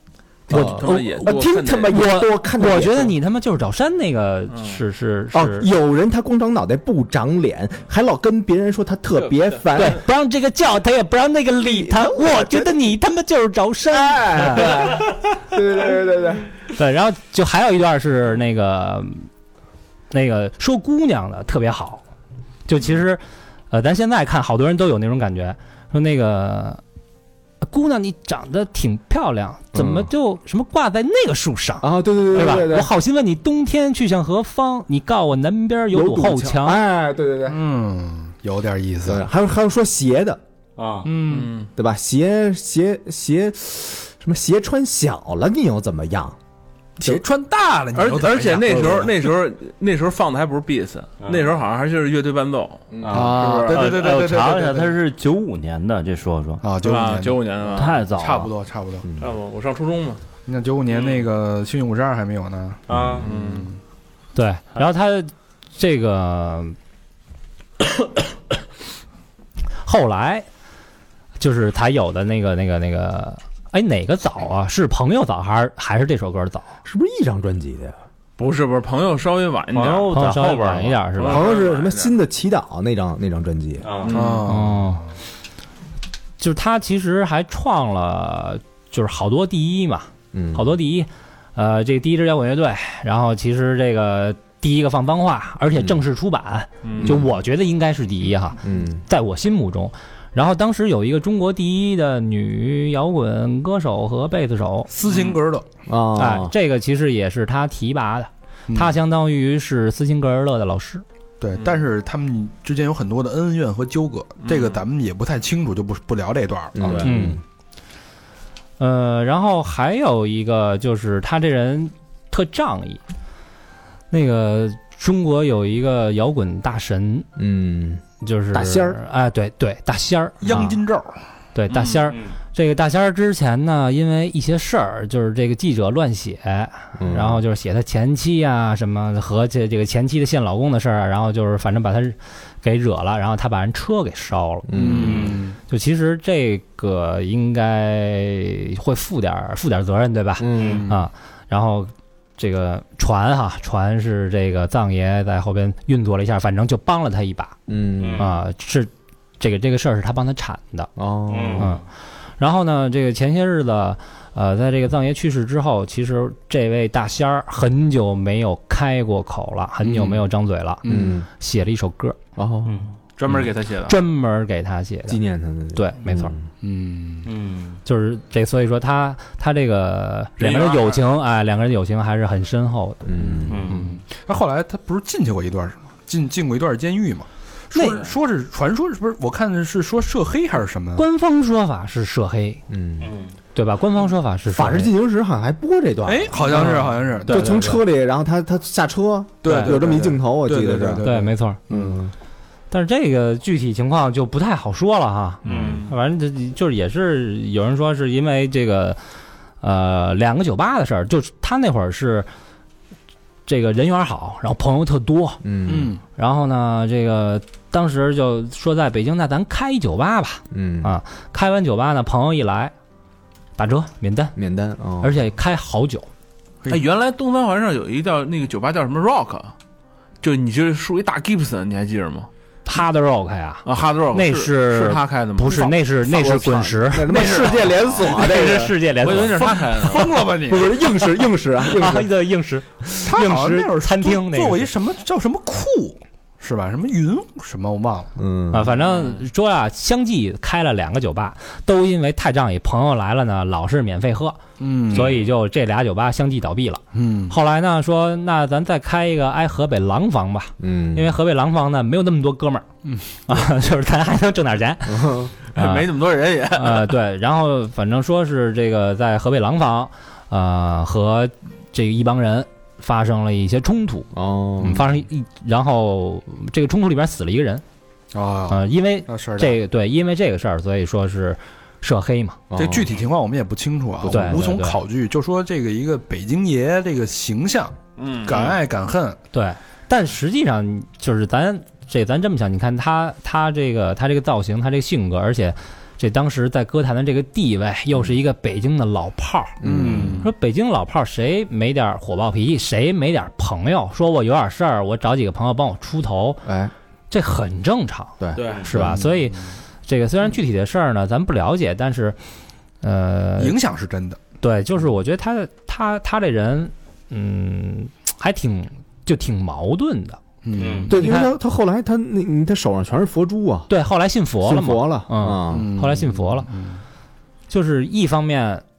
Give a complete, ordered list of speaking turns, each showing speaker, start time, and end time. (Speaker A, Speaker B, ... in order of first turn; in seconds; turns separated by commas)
Speaker A: 0.5-1.9, Speaker B: 0.5-3.1, Speaker C: 0.5-5.7, Speaker A: 4.5-4.8, Speaker B: 5.3-10.0, Speaker A: 9.1-9.8, Speaker C: 9.7-15.1, Speaker B: 11.6-12.7, Speaker B: 13.9-16.5, Speaker C: 16.7-19.3, Speaker C: 20.1-22.0, Speaker C: 22.7-26.8, Speaker C: 27.6-36.8, Speaker B: 29.7-30.1, Speaker B: 31.8-32.9, Speaker B: 35.9-37.6, Speaker D: 37.5-39.2, Speaker B: 39.0-40.4, Speaker E: 40.8-41.1, Speaker D: 41.0-41.5, Speaker A: 41.3-41.7, Speaker B: 41.8-46.4, Speaker D: 47.0-49.1, Speaker A: 48.0-54.0, Speaker B: 48.7-49.1, Speaker E: 51.2-51.5, Speaker B: 52.9-53.3, Speaker E: 53.0-56.6, Speaker D: 53.1-54.9, Speaker D: 56.6-59.1, Speaker A: 56.8-58.0, Speaker E: 57.8-58.5, Speaker B: 59.0-59.3, Speaker A: 59.2-60.2, Speaker D: 60.5-63.8, Speaker A: 60.9-61.3, Speaker E: 62.9-63.3, Speaker B: 62.9-63.2, Speaker A: 63.2-63.7, Speaker C: 64.3-66.8, Speaker C: 69.8-70.5, Speaker C: 71.4-76.7, Speaker B: 76.8-78.0, Speaker A: 78.4-80.1, Speaker E: 79.7-81.4, Speaker C: 80.1-81.5, Speaker A: 81.2-82.2, Speaker B: 81.2-83.9, Speaker E: 83.8-84.2, Speaker A: 84.0-84.5, Speaker D: 84.1-85.0, Speaker C: 84.5-85.0, Speaker C: 86.4-104.9, Speaker B: 90.3-90.7, Speaker B: 95.7-96.0, Speaker A: 96.8-97.2, Speaker B: 97.0-97.3, Speaker B: 98.6-99.0, Speaker D: 104.9-105.7, Speaker A: 105.0-105.4, Speaker B: 105.9-106.5, Speaker C: 106.2-111.0, Speaker D: 108.7-109.0, Speaker D: 111.4-117.1, Speaker A: 114.4-114.8, Speaker B: 116.8-117.4, Speaker C: 117.0-117.4, Speaker C: 118.8-123.0, Speaker C: 124.1-127.3, Speaker B: 127.4-129.0, Speaker C: 128.2-130.8, Speaker D: 130.4-131.2, Speaker C: 131.5-145.1, Speaker A: 131.7-132.0, Speaker E: 132.1-132.3, Speaker B: 137.0-137.4, Speaker B: 144.7-145.4, Speaker D: 144.8-145.6, Speaker E: 144.9-145.4, Speaker C: 145.7-157.6, Speaker B: 150.4-150.9, Speaker E: 150.5-150.8, Speaker D: 150.6-151.0, Speaker B: 157.7-158.3, Speaker E: 158.0-158.2, Speaker C: 158.2-160.9, Speaker B: 161.0-161.7, Speaker E: 161.3-161.8, Speaker C: 162.4-170.8, Speaker D: 169.8-170.2, Speaker D: 170.8-171.2, Speaker B: 170.9-171.3, Speaker C: 171.4-172.2, Speaker B: 172.4-173.4, Speaker E: 172.7-172.9, Speaker A: 173.2-174.0, Speaker C: 173.9-175.2, Speaker B: 175.1-176.4, Speaker C: 175.8-176.3, Speaker D: 176.6-177.3, Speaker E: 177.2-177.8, Speaker C: 177.9-183.1, Speaker D: 180.4-181.0, Speaker A: 180.4-180.8, Speaker B: 183.1-183.7, Speaker D: 183.2-191.1, Speaker E: 183.5-183.8, Speaker C: 187.7-188.1, Speaker C: 191.0-192.6, Speaker B: 192.7-193.1, Speaker E: 193.0-193.3, Speaker C: 193.6-194.9, Speaker B: 194.5-201.1, Speaker D: 196.1-197.8, Speaker C: 196.5-197.8, Speaker D: 199.4-202.0, Speaker C: 199.4-199.7, Speaker C: 201.0-201.6, Speaker B: 201.7-202.1, Speaker C: 202.7-209.0, Speaker E: 205.4-205.9, Speaker D: 205.5-205.8, Speaker A: 205.5-205.9, Speaker C: 209.6-212.3, Speaker C: 213.5-215.4, Speaker B: 215.4-215.9, Speaker D: 215.7-216.0, Speaker C: 216.2-222.7, Speaker B: 220.5-220.9, Speaker C: 223.6-224.3, Speaker B: 224.4-225.1, Speaker C: 225.0-226.1, Speaker A: 226.7-229.5, Speaker A: 230.2-232.3, Speaker C: 232.7-239.7, Speaker A: 233.7-235.8, Speaker B: 236.0-238.8, Speaker A: 237.1-240.2, Speaker D: 239.5-240.7, Speaker B: 240.5-242.1, Speaker C: 241.7-244.7, Speaker D: 243.0-248.1, Speaker B: 248.2-248.8, Speaker C: 248.5-262.6, Speaker A: 248.9-249.2, Speaker D: 254.6-255.2, Speaker E: 254.9-255.3, Speaker D: 256.9-257.4, Speaker B: 260.6-261.1, Speaker C: 263.3-265.9, Speaker B: 264.9-265.3, Speaker A: 265.5-266.9, Speaker C: 266.5-277.6, Speaker B: 274.1-274.9, Speaker D: 278.1-279.6, Speaker C: 278.5-282.4, Speaker B: 282.5-282.9, Speaker D: 282.5-289.2, Speaker C: 284.0-284.8, Speaker A: 288.0-288.6, Speaker C: 289.3-299.6, Speaker B: 299.6-300.2, Speaker D: 299.6-300.3, Speaker E: 299.8-300.1, Speaker C: 300.1-306.4, Speaker B: 306.4-306.7, Speaker C: 307.1-312.2, Speaker B: 308.2-309.0, Speaker A: 308.4-308.7, Speaker D: 308.7-309.5, Speaker C: 312.8-313.6, Speaker D: 313.4-314.2, Speaker C: 314.4-320.2, Speaker D: 320.4-320.9, Speaker E: 320.6-320.9, Speaker B: 320.9-323.7, Speaker C: 320.9-321.3, Speaker C: 323.7-326.5, Speaker B: 324.4-325.7, Speaker D: 325.5-326.8, Speaker C: 327.5-328.6